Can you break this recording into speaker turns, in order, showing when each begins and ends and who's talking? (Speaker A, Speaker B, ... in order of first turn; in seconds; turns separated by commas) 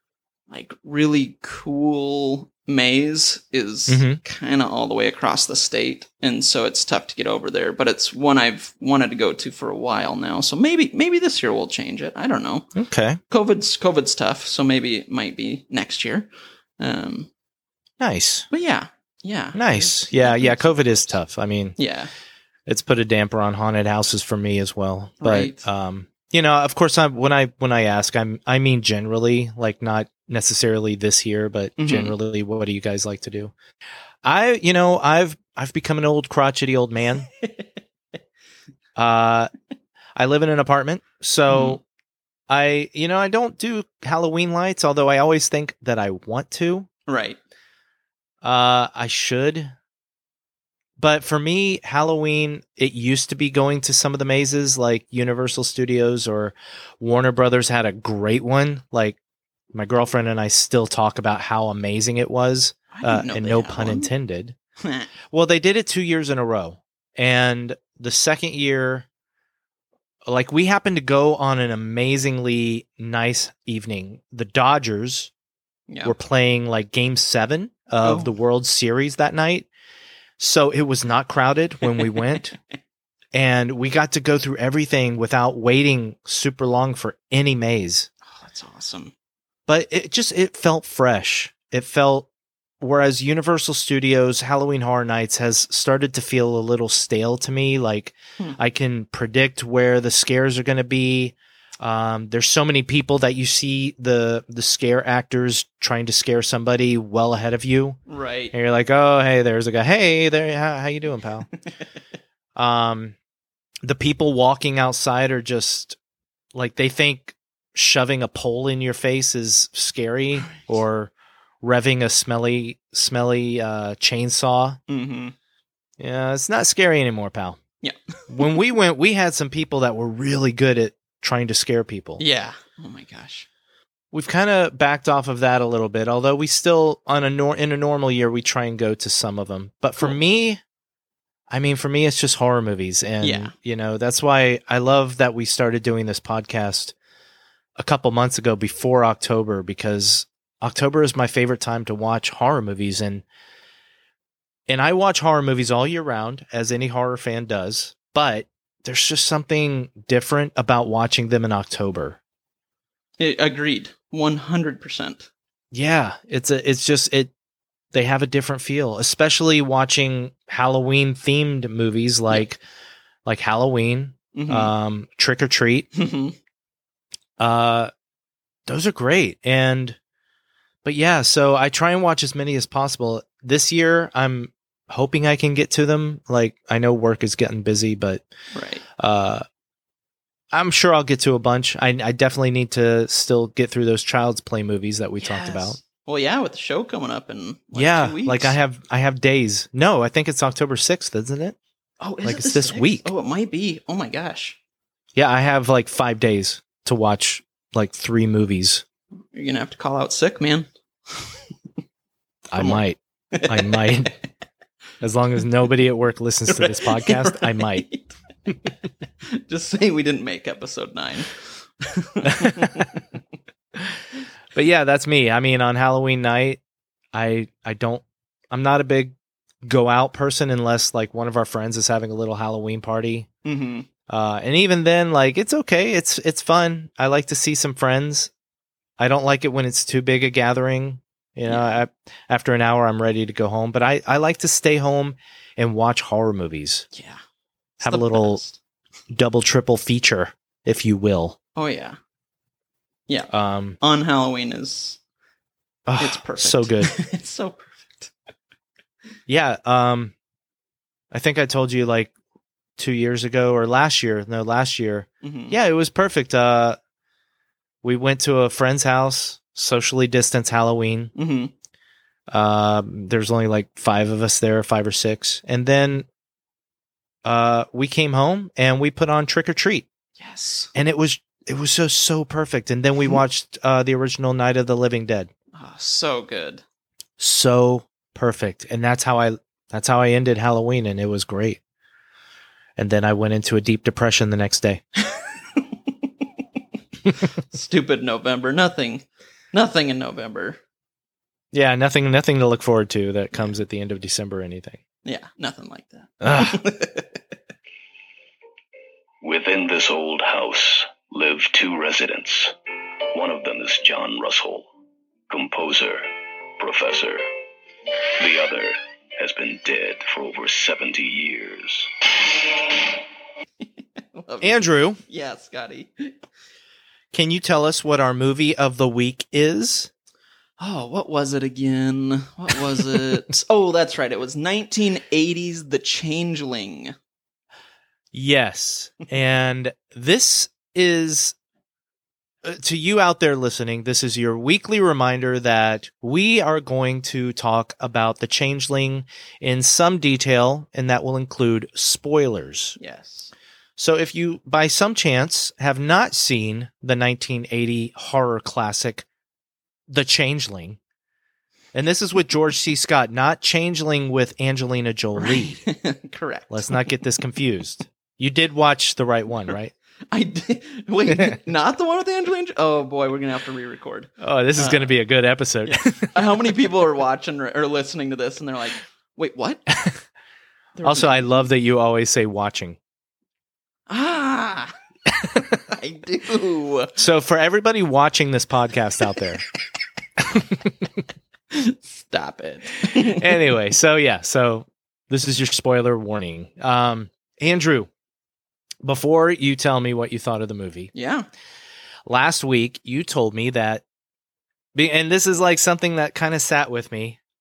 Speaker A: 0.5-12.7, Speaker B: 3.9-4.2, Speaker B: 12.8-13.2, Speaker A: 13.3-17.3, Speaker B: 18.0-18.5, Speaker A: 18.5-21.2, Speaker B: 19.5-21.8, Speaker A: 21.8-22.1, Speaker B: 22.7-33.5, Speaker A: 25.2-25.6, Speaker A: 31.8-32.1, Speaker B: 34.2-37.3, Speaker B: 39.0-39.5, Speaker B: 40.1-41.8, Speaker A: 41.5-41.8, Speaker B: 42.5-46.9, Speaker A: 47.1-47.4, Speaker B: 48.4-49.7, Speaker B: 51.0-59.2, Speaker B: 59.7-64.5, Speaker A: 62.9-64.1, Speaker A: 64.8-65.1, Speaker B: 65.3-69.0, Speaker B: 70.2-75.3, Speaker A: 75.9-76.1, Speaker B: 76.0-79.7, Speaker A: 78.0-78.3, Speaker B: 80.4-82.5, Speaker A: 81.9-82.2, Speaker B: 83.3-88.1, Speaker A: 88.3-89.1, Speaker B: 89.7-92.3, Speaker B: 92.8-108.0, Speaker A: 108.1-108.5, Speaker B: 108.5-111.5, Speaker B: 112.5-113.1, Speaker B: 113.8-116.0, Speaker B: 116.5-124.8, Speaker A: 124.9-125.3, Speaker B: 126.0-127.6, Speaker A: 127.8-128.4, Speaker B: 128.3-132.2, Speaker A: 132.2-133.5, Speaker B: 134.1-140.6, Speaker B: 141.5-146.9, Speaker A: 143.2-143.5, Speaker B: 147.8-153.2, Speaker B: 154.7-162.2, Speaker A: 163.2-165.3, Speaker B: 165.7-167.3, Speaker B: 167.9-172.6, Speaker B: 173.2-175.9, Speaker A: 174.3-174.7, Speaker A: 175.9-176.4, Speaker B: 177.4-177.9, Speaker B: 178.7-180.0, Speaker B: 180.8-188.2, Speaker A: 188.5-188.8, Speaker B: 189.0-189.4, Speaker B: 190.5-195.8, Speaker A: 195.2-198.6, Speaker B: 197.7-201.6, Speaker A: 202.0-204.6, Speaker B: 202.2-203.1, Speaker B: 205.1-208.8, Speaker A: 209.3-211.3, Speaker B: 212.5-214.1, Speaker A: 212.6-214.1, Speaker B: 215.0-217.9, Speaker A: 216.5-218.1, Speaker A: 219.2-223.0, Speaker B: 222.4-222.7, Speaker B: 224.5-226.6, Speaker B: 227.1-233.3, Speaker A: 233.4-233.9, Speaker B: 234.1-238.3, Speaker B: 239.0-246.9, Speaker A: 241.5-241.8, Speaker A: 246.9-247.2, Speaker B: 247.8-248.4, Speaker A: 247.8-248.6, Speaker B: 249.1-251.4, Speaker A: 251.6-252.0, Speaker A: 253.1-255.0, Speaker B: 253.3-253.8, Speaker B: 255.9-256.9, Speaker A: 256.0-258.1, Speaker B: 259.3-260.1, Speaker B: 261.1-262.1, Speaker B: 262.8-266.8, Speaker A: 265.2-265.6, Speaker B: 267.8-271.1, Speaker A: 271.1-271.5, Speaker B: 272.3-276.1, Speaker B: 277.2-279.9, Speaker A: 280.2-280.7, Speaker B: 280.8-285.3, Speaker A: 285.5-286.6, Speaker B: 287.2-291.6, Speaker B: 292.8-294.8, Speaker A: 295.1-295.6, Speaker A: 297.5-300.6, Speaker B: 301.5-304.8, Speaker A: 305.0-307.2, Speaker B: 306.2-306.6, Speaker C: 309.2-312.6, Speaker C: 313.1-314.7, Speaker C: 315.3-317.3, Speaker C: 318.2-322.1, Speaker A: 324.1-326.1, Speaker B: 324.4-325.0, Speaker B: 327.1-329.9, Speaker A: 330.6-336.9, Speaker B: 338.1-341.4, Speaker B: 342.4-352.8, Speaker A: 352.8-353.3, Speaker B: 353.8-359.1, Speaker B: 359.9-360.8, Speaker B: 361.7-365.6, Speaker A: 365.2-366.9, Speaker B: 366.5-369.7, Speaker A: 370.1-374.9, Speaker B: 374.2-376.1, Speaker A: 375.6-379.7, Speaker A: 380.8-381.4, Speaker B: 380.8-382.8, Speaker A: 383.9-384.7, Speaker A: 385.7-387.0, Speaker B: 387.0-389.4, Speaker B: 390.2-390.7, Speaker A: 391.5-393.4, Speaker B: 392.9-397.9, Speaker B: 398.8-400.9, Speaker A: 400.9-401.2, Speaker B: 402.1-403.8, Speaker B: 404.8-407.2